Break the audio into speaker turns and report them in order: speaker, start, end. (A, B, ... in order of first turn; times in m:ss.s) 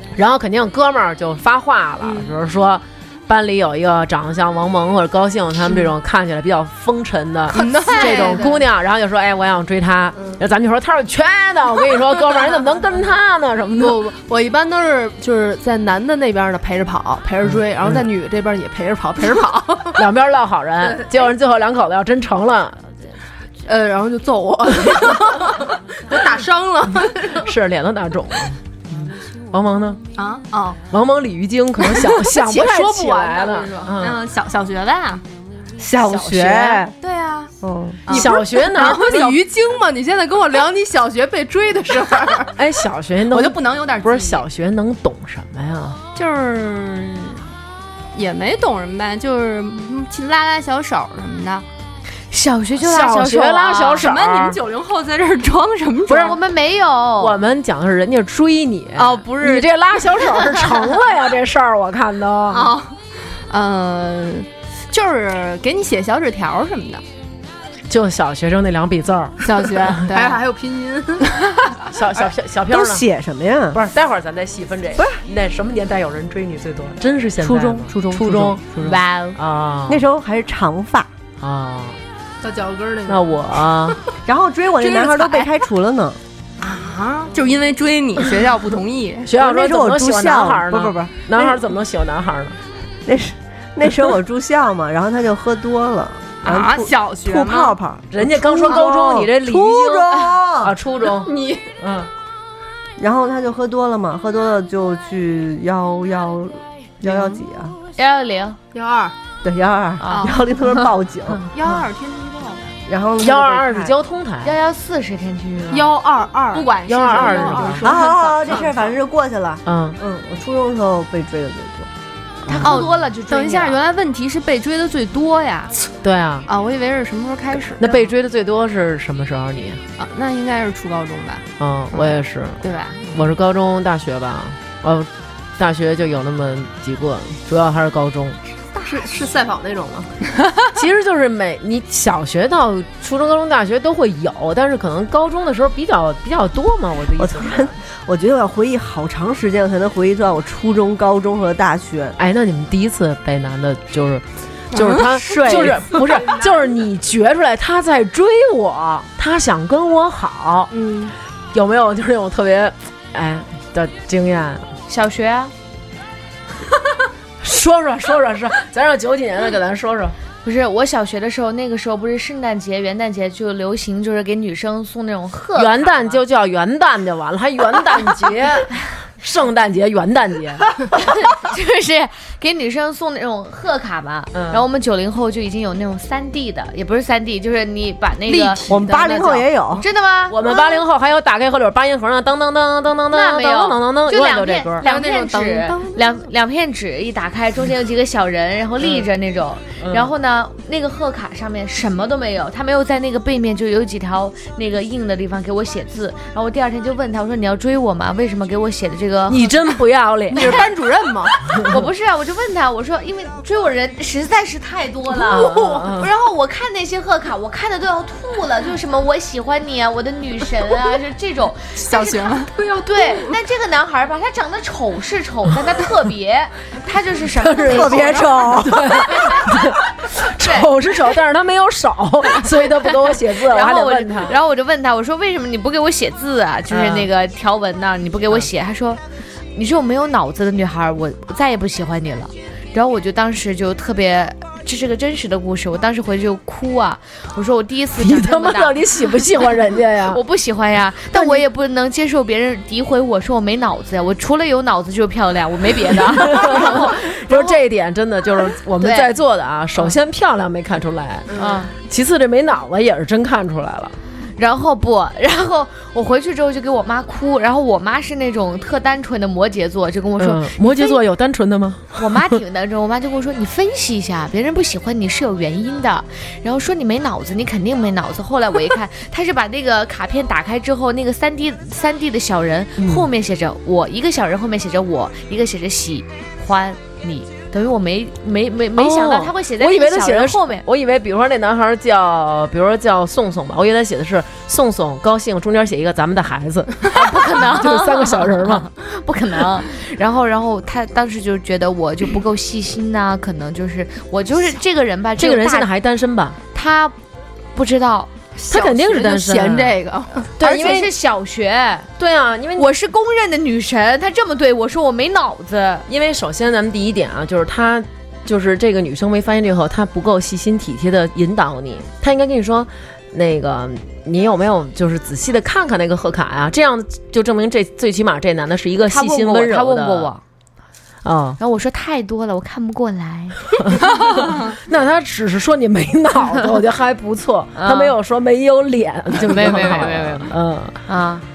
0:00.2-0:14.0 A
0:02.0-0:02.3 B
0:07.5-0:08.7 B
0:07.7-0:08.4 C
0:13.8-0:20.0 B
0:17.5-0:18.0 A
0:19.9-0:22.8 A
0:23.6-0:27.5 B
0:27.4-0:30.0 A
0:30.2-0:30.8 C
0:30.9-0:34.2 A
0:32.4-0:33.7 B
0:33.8-0:35.2 C
0:35.8-0:36.9 D
0:36.1-0:36.8 A
0:37.0-0:37.5 C
0:37.6-0:38.0 D
0:38.1-0:39.4 C
0:38.1-0:42.5 B
0:38.1-0:39.4 A
0:42.6-0:47.4 A
0:43.3-0:44.4 C
0:48.1-0:51.6 C
0:52.3-0:54.1 E
0:52.8-0:54.6 A
0:54.0-0:56.4 C
0:56.1-0:56.4 A
0:56.2-0:57.4 E
0:57.2-1:02.8 A
0:59.0-0:59.7 C
1:02.5-1:02.9 C
1:03.5-1:07.0 C
1:07.9-1:09.9 A
1:09.4-1:10.4 C
1:10.0-1:11.4 B
1:11.9-1:13.0 A
1:12.7-1:13.8 D
1:13.7-1:20.0 A
1:17.4-1:18.9 D
1:18.8-1:19.4 E
1:19.9-1:21.1 D
1:21.4-1:22.0 A
1:22.4-1:23.9 B
1:23.1-1:24.0 A
1:24.2-1:26.2 D
1:24.8-1:25.5 C
1:26.6-1:29.3 C
1:29.3-1:32.6 A
1:29.3-1:31.7 D
1:33.0-1:40.7 D
1:36.4-1:37.8 C
1:38.1-1:42.1 A
1:41.0-1:41.7 C
1:43.0-1:47.7 D
1:48.0-1:48.6 E
1:48.7-1:49.1 B
1:49.4-1:51.4 D
1:50.0-1:50.4 E
1:50.1-1:50.4 C
1:51.5-1:52.7 C
1:52.9-1:53.9 D
1:53.2-1:54.6 A
1:54.4-1:55.9 E
1:55.7-1:58.7 B
1:56.5-1:58.7 C
1:56.9-1:57.8 A
1:57.8-2:01.9 D
1:59.6-2:00.0 A
2:02.4-2:02.8 A
2:02.6-2:03.8 E
2:02.6-2:05.8 C
2:06.0-2:06.5 A
2:06.5-2:08.1 C
2:07.8-2:09.8 A
2:10.0-2:13.2 C
2:11.6-2:18.4 A
2:18.7-2:20.2 B
2:20.7-2:27.7 A
2:27.2-2:32.2 D
2:32.2-2:40.7 A
2:34.7-2:35.6 C
2:35.3-2:36.0 D
2:40.7-2:41.1 B
2:41.5-2:44.6 A
2:44.9-2:45.5 E
2:47.4-2:50.2 A
2:50.4-2:56.2 E
2:55.6-3:00.8 A
3:00.9-3:10.4 E
3:04.3-3:04.6 A
3:08.3-3:09.0 B
3:08.7-3:09.9 D
3:10.3-3:14.8 A
3:13.1-3:29.7 E
3:14.8-3:15.8 C
3:18.8-3:19.0 A
3:19.8-3:20.1 A
3:29.3-3:30.6 A
3:30.3-3:30.6 E
3:30.3-3:31.4 B
3:31.5-3:48.5 E
3:35.3-3:36.1 A
3:35.4-3:35.9 B
3:41.8-3:42.5 C
3:47.4-3:54.4 A
3:47.5-3:49.1 D
3:49.2-3:49.6 E
3:50.4-3:50.6 E
3:53.1-3:59.0 E
3:56.7-3:57.1 A
3:59.5-4:08.8 E
4:08.0-4:10.2 A
4:10.1-4:17.5 E
4:11.1-4:11.4 A
4:16.1-4:21.3 A
4:18.8-4:19.1 E
4:21.3-4:21.7 E
4:21.8-4:24.0 A
4:24.4-4:31.0 E
4:30.2-4:32.4 A
4:32.0-4:50.6 E
4:48.8-4:58.7 A
4:56.9-5:05.6 E
5:05.2-5:06.4 A
5:06.5-5:06.9 E
5:07.5-5:08.1 E
5:08.4-5:10.8 B
5:08.5-5:09.8 A
5:10.4-5:10.9 A
5:10.4-5:11.9 E
5:12.0-5:12.7 A
5:12.6-5:15.8 E
5:15.9-5:30.1 A
5:28.9-5:30.2 E
5:31.0-5:31.4 A
5:31.4-5:33.4 E
5:33.6-5:40.8 A
5:37.6-5:37.9 E
5:39.2-5:40.3 E
5:40.9-5:41.2 E